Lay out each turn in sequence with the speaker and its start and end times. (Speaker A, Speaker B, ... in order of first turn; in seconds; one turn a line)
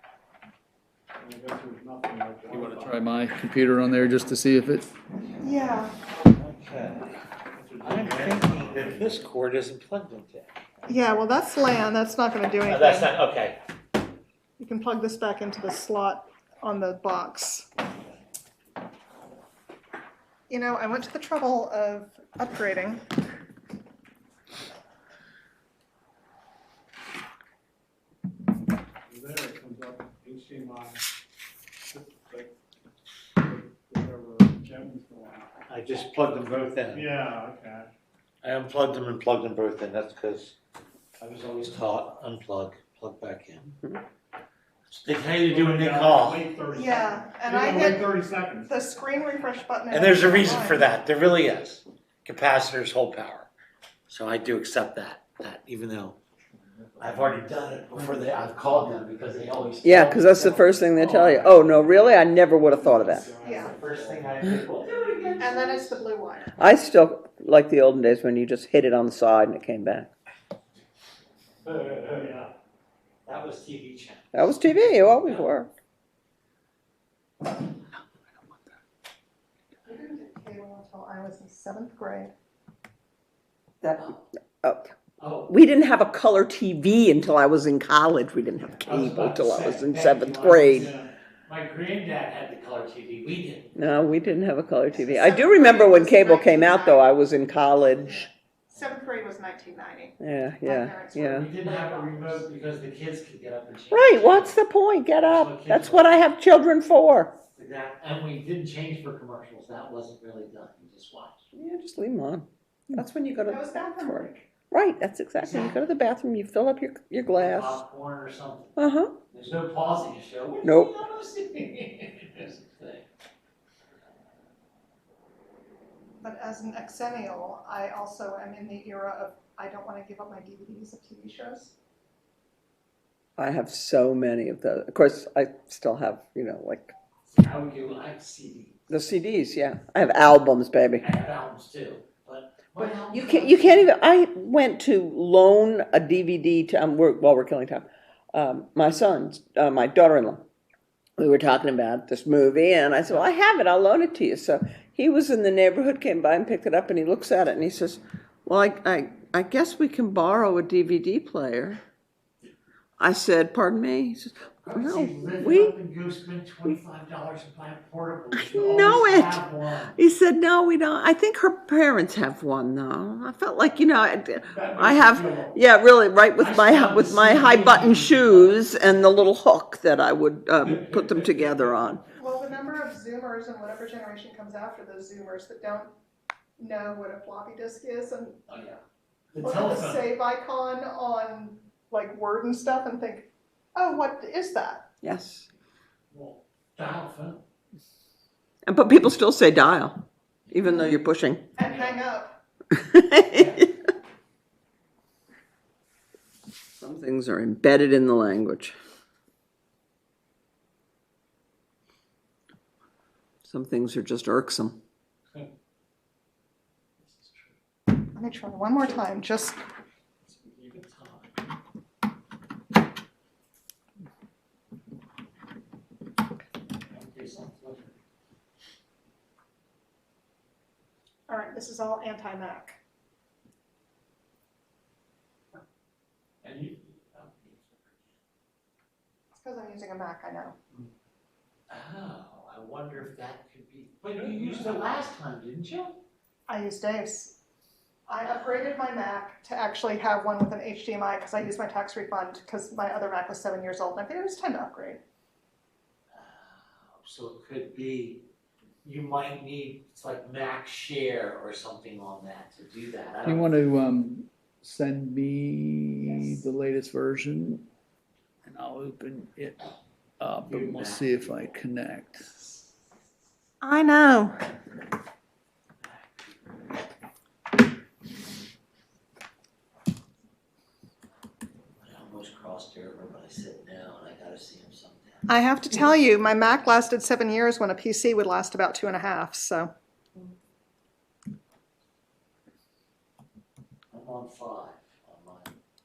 Speaker A: 1.2-3.0
Speaker B: 2.5-4.9
Speaker C: 5.4-5.9
Speaker D: 6.3-7.2
Speaker A: 7.5-9.3
Speaker D: 7.8-10.6
Speaker C: 10.9-13.1
Speaker D: 12.7-13.6
Speaker C: 14.6-17.7
Speaker C: 20.5-23.0
Speaker A: 29.1-31.0
Speaker A: 31.9-32.5
Speaker A: 33.4-35.5
Speaker D: 35.7-37.1
Speaker A: 36.9-37.9
Speaker D: 38.4-40.5
Speaker D: 41.2-43.8
Speaker D: 44.9-46.5
Speaker A: 45.3-48.7
Speaker C: 46.7-48.1
Speaker C: 48.7-50.9
Speaker D: 49.9-53.5
Speaker D: 54.1-56.2
Speaker A: 56.8-59.9
Speaker D: 57.0-61.7
Speaker E: 59.8-63.3
Speaker A: 61.0-65.4
Speaker C: 63.4-63.8
Speaker D: 63.5-65.9
Speaker C: 65.4-66.5
Speaker E: 66.6-70.1
Speaker D: 71.7-72.5
Speaker A: 71.7-72.5
Speaker D: 73.2-75.5
Speaker E: 74.3-75.7
Speaker C: 79.8-82.3
Speaker E: 83.8-84.1
Speaker D: 84.0-84.2
Speaker E: 84.6-84.9
Speaker D: 85.2-85.5
Speaker E: 85.4-90.9
Speaker D: 88.8-93.7
Speaker A: 90.7-91.1
Speaker E: 93.8-98.3
Speaker C: 95.0-97.2
Speaker C: 97.9-102.4
Speaker E: 100.2-101.5
Speaker D: 101.3-104.6
Speaker E: 103.9-107.3
Speaker D: 105.2-106.3
Speaker D: 107.4-111.4
Speaker E: 111.5-117.8
Speaker C: 113.5-114.5
Speaker D: 115.4-115.8
Speaker D: 117.3-118.8
Speaker E: 118.8-119.2
Speaker D: 119.3-123.0
Speaker E: 120.6-120.9
Speaker C: 126.2-131.8
Speaker E: 133.4-136.9
Speaker D: 137.3-138.8
Speaker E: 138.9-141.1
Speaker D: 141.0-144.0
Speaker E: 142.8-150.4
Speaker E: 151.2-161.8
Speaker E: 163.0-165.8
Speaker D: 164.6-169.9
Speaker E: 168.3-182.0
Speaker D: 174.5-175.6
Speaker D: 176.3-179.3
Speaker D: 180.6-182.0
Speaker C: 182.2-185.9
Speaker C: 186.6-188.4
Speaker D: 188.5-188.8
Speaker D: 189.3-190.1
Speaker C: 189.4-194.9
Speaker E: 195.0-195.5
Speaker D: 196.1-197.4
Speaker E: 198.7-201.5
Speaker C: 200.6-201.0
Speaker C: 201.6-202.3
Speaker D: 201.6-202.0
Speaker E: 202.7-203.6
Speaker D: 203.3-203.7
Speaker E: 206.8-208.8
Speaker E: 213.4-214.8
Speaker D: 217.0-217.6
Speaker C: 218.2-219.6
Speaker D: 220.3-221.4
Speaker D: 226.8-227.9
Speaker C: 231.3-232.8
Speaker D: 236.4-238.2
Speaker C: 239.3-240.6
Speaker D: 241.7-246.0
Speaker A: 244.2-244.7
Speaker C: 246.5-247.4
Speaker C: 248.1-255.0
Speaker D: 256.1-258.2
Speaker D: 258.8-263.6
Speaker B: 263.2-267.6
Speaker C: 266.0-266.4
Speaker B: 268.5-269.6
Speaker B: 270.2-272.3
Speaker D: 270.5-271.6
Speaker C: 273.6-274.4
Speaker D: 275.8-276.3
Speaker D: 281.8-285.3
Speaker C: 285.3-289.7
Speaker D: 293.9-295.5